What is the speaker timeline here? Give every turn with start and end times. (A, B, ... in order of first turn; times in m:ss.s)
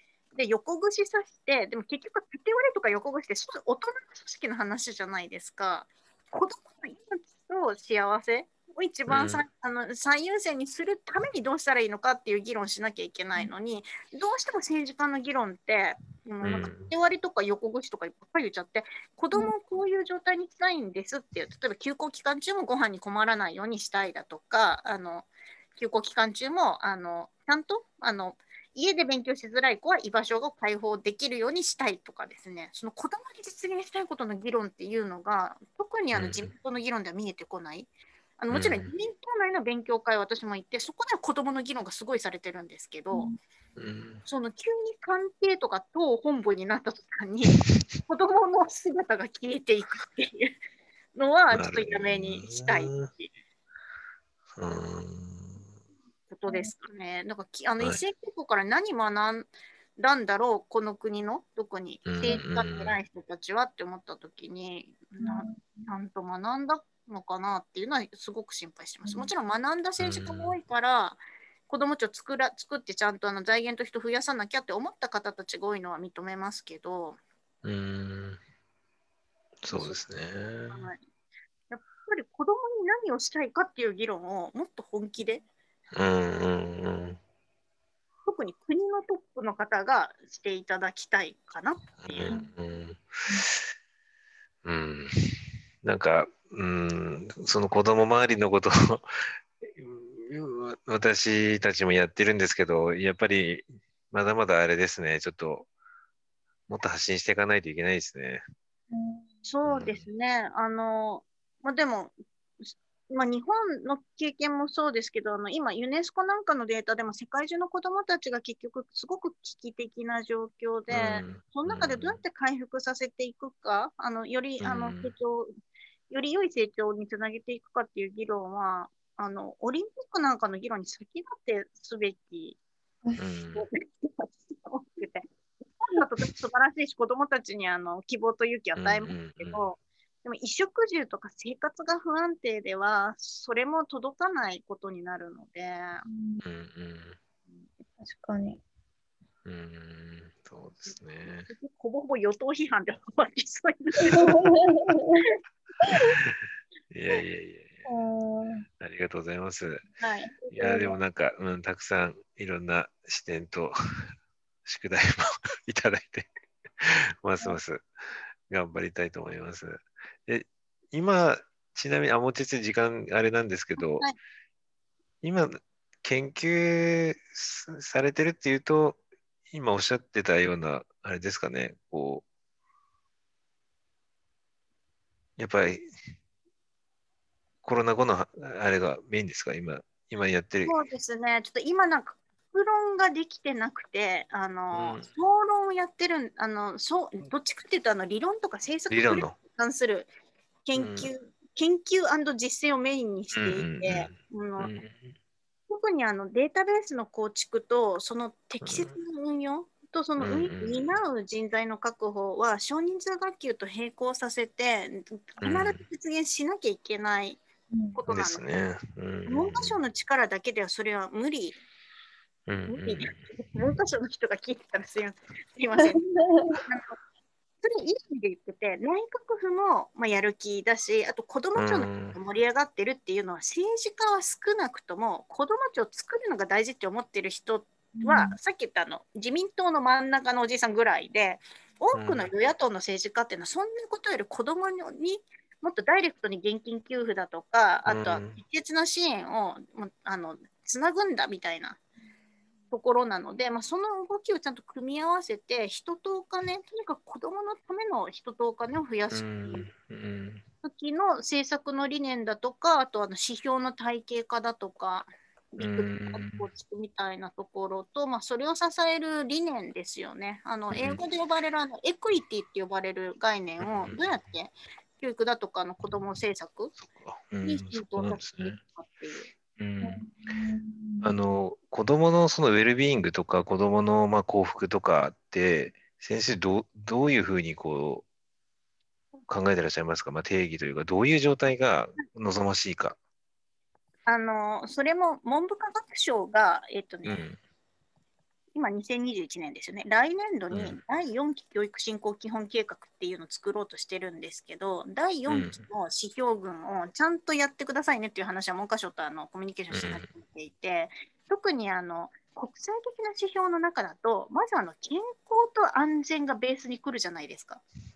0:00.3-0:43.3 A
0:09.1-0:09.4 B
0:16.4-0:16.9 B
0:36.1-0:36.5 B
0:38.5-0:38.9 B
0:43.1-0:43.4 C
0:43.8-0:44.2 B
0:44.3-0:50.6 A
0:47.5-0:47.8 B
0:51.2-0:53.3 A
0:51.5-0:53.1 B
0:54.6-0:55.6 B
0:56.3-1:17.2 A
1:02.1-1:03.0 B
1:05.2-1:05.9 C
1:10.0-1:10.6 B
1:17.6-1:18.4 B
1:19.6-1:20.9 B
1:20.7-1:21.0 A
1:21.7-1:25.4 A
1:25.9-1:27.2 B
1:28.2-1:32.4 A
1:32.0-1:33.2 B
1:34.6-1:39.1 B
1:39.6-1:45.7 B
1:46.7-1:48.4 B
1:48.9-1:49.3 C
1:49.4-2:05.5 A
1:49.6-1:50.0 B
2:00.9-2:02.2 B
2:04.6-2:05.1 B
2:06.1-2:12.6 A
2:13.2-2:13.7 B
2:13.5-2:26.0 A
2:18.8-2:19.6 B
2:26.1-2:26.4 C
2:26.4-2:27.2 B
2:28.0-2:28.6 C
2:29.4-2:31.5 B
2:31.5-2:34.4 A
2:34.0-2:35.2 C
2:35.8-2:36.1 C
2:35.9-2:36.4 B
2:36.9-2:37.8 B
2:37.9-2:38.7 C
2:38.8-2:39.8 B
2:40.0-2:40.4 A
2:40.4-2:41.0 C
2:40.5-2:44.1 B
2:44.6-2:46.3 B
2:46.8-2:47.9 B
2:48.5-2:54.1 B
2:53.8-2:54.2 A
2:55.2-2:59.0 B
2:59.5-3:02.2 B
3:05.4-3:05.9 B
3:07.6-3:10.8 B
3:10.6-3:20.1 A
3:14.7-3:15.1 B
3:18.9-3:19.4 B
3:20.7-3:24.7 A
3:20.8-3:21.1 B
3:23.3-3:25.1 B
3:25.7-3:37.4 A
3:28.6-3:29.0 B
3:30.2-3:31.0 B
3:35.4-3:35.8 B
3:37.7-3:38.0 C
3:38.0-3:38.4 A
3:38.1-3:39.8 B
3:39.3-3:41.6 A
3:42.5-3:43.2 B
3:42.7-3:46.0 A
3:46.0-3:46.6 C
3:46.7-3:47.0 A
3:47.6-4:11.8 A
3:51.6-3:52.2 B
3:58.0-3:58.4 C
4:01.9-4:02.3 B
4:07.9-4:08.4 B
4:12.7-4:19.7 A
4:19.1-4:20.4 B
4:20.6-4:36.8 A
4:25.6-4:26.5 B
4:30.7-4:31.0 B
4:33.6-4:34.2 B
4:36.8-4:38.6 B
4:37.4-4:39.3 A
4:39.6-4:40.4 B
4:39.8-4:41.1 C
4:41.0-4:48.1 B
4:49.3-4:53.0 B
4:54.1-4:57.3 A
4:57.0-4:57.4 B
4:58.5-5:17.6 A
5:00.5-5:00.8 B
5:05.3-5:05.6 B
5:09.7-5:10.1 B